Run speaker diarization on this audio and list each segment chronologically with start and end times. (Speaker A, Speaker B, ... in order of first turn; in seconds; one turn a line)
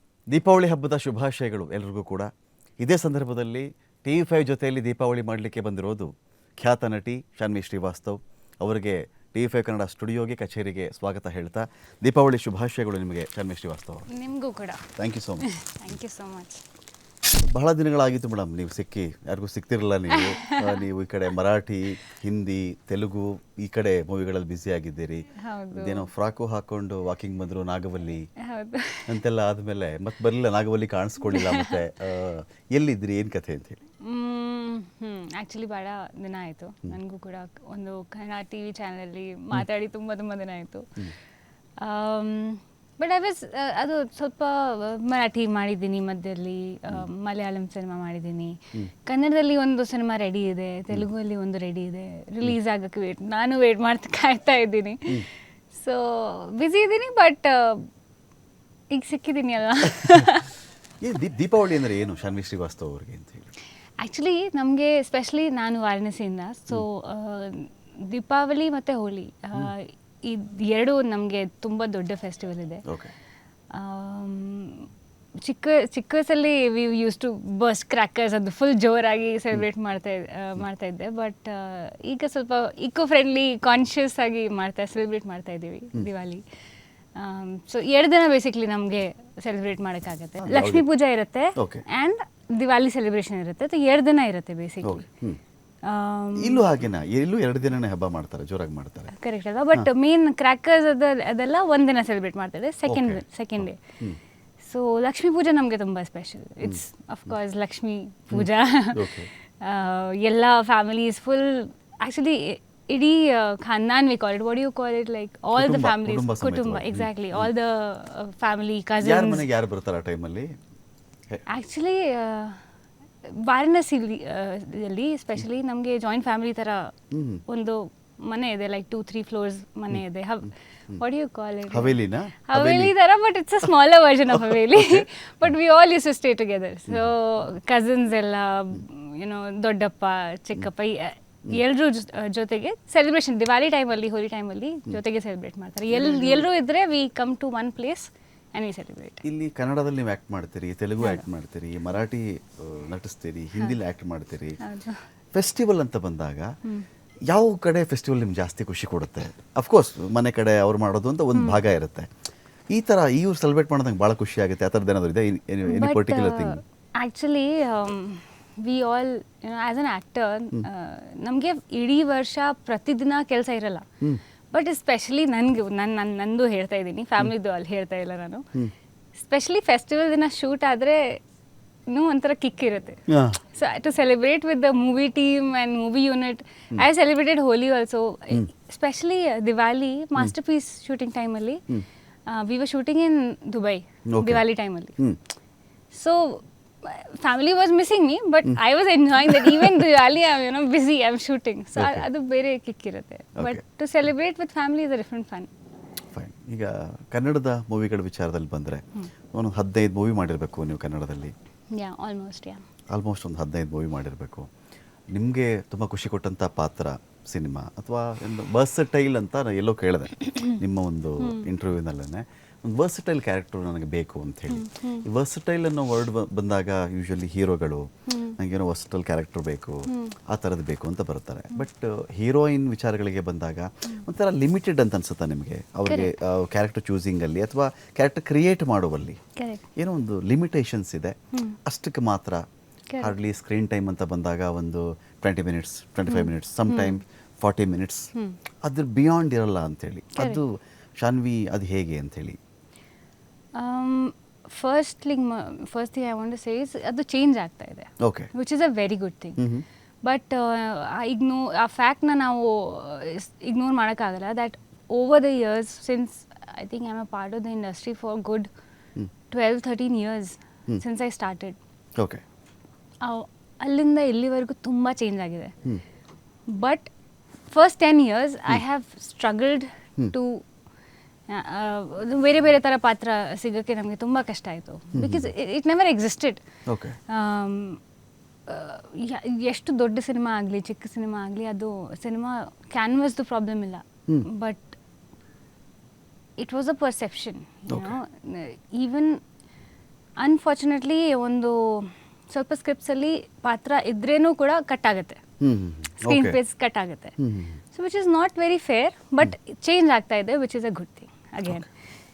Speaker A: 0.3-14.1
Speaker B: 14.1-16.6
Speaker A: 14.9-15.5
Speaker A: 17.4-28.2
Speaker B: 20.1-20.8
Speaker B: 25.4-26.1
Speaker B: 28.4-29.1
Speaker A: 29.1-33.8
Speaker B: 31.3-31.8
Speaker B: 34.0-41.0
Speaker B: 41.8-57.9
Speaker B: 58.9-60.5
Speaker A: 61.0-63.5
Speaker B: 64.0-72.8
Speaker A: 72.8-73.1
Speaker B: 73.7-74.9
Speaker B: 75.4-86.4
Speaker B: 87.1-95.1
Speaker A: 90.4-90.9
Speaker A: 91.5-91.8
Speaker A: 94.8-95.4
Speaker B: 95.8-96.7
Speaker A: 96.3-99.1
Speaker B: 99.1-103.8
Speaker A: 102.9-104.2
Speaker B: 104.6-119.5
Speaker A: 108.3-109.3
Speaker A: 115.5-117.5
Speaker A: 119.0-120.5
Speaker B: 121.5-122.6
Speaker B: 123.2-126.9
Speaker A: 127.1-127.4
Speaker B: 127.5-149.2
Speaker A: 131.7-132.9
Speaker A: 134.4-135.1
Speaker A: 145.9-146.5
Speaker A: 149.2-154.6
Speaker B: 151.0-151.2
Speaker B: 154.6-155.0
Speaker A: 155.3-156.5
Speaker A: 157.3-162.1
Speaker B: 161.3-161.6
Speaker A: 162.7-166.6
Speaker B: 165.7-173.8
Speaker B: 174.5-178.4
Speaker B: 179.2-181.2
Speaker B: 181.9-191.6
Speaker A: 183.1-183.4
Speaker B: 192.3-195.0
Speaker A: 194.1-194.4
Speaker B: 195.9-205.5
Speaker A: 199.2-199.8
Speaker A: 201.8-202.1
Speaker A: 206.1-211.3
Speaker B: 211.7-212.6
Speaker A: 212.9-214.5
Speaker A: 215.1-239.2
Speaker B: 221.2-221.5
Speaker B: 224.5-225.1
Speaker B: 228.1-228.4
Speaker B: 229.9-230.2
Speaker B: 239.3-239.6
Speaker A: 239.8-242.4
Speaker B: 241.3-241.6
Speaker B: 242.9-243.1
Speaker A: 243.0-248.1
Speaker B: 246.1-247.0
Speaker A: 248.6-252.4
Speaker B: 253.6-259.4
Speaker A: 258.0-258.3
Speaker A: 259.4-259.6
Speaker B: 260.0-268.5
Speaker B: 269.3-271.6
Speaker B: 273.0-275.5
Speaker B: 276.5-276.9
Speaker B: 277.5-280.4
Speaker B: 281.3-286.4
Speaker A: 284.9-285.3
Speaker A: 286.7-287.0
Speaker B: 287.1-287.8
Speaker B: 288.5-294.7
Speaker B: 296.4-299.2
Speaker A: 297.7-298.0
Speaker B: 300.2-305.2
Speaker A: 305.4-306.4
Speaker B: 306.0-307.2
Speaker A: 307.2-307.6
Speaker B: 307.7-311.7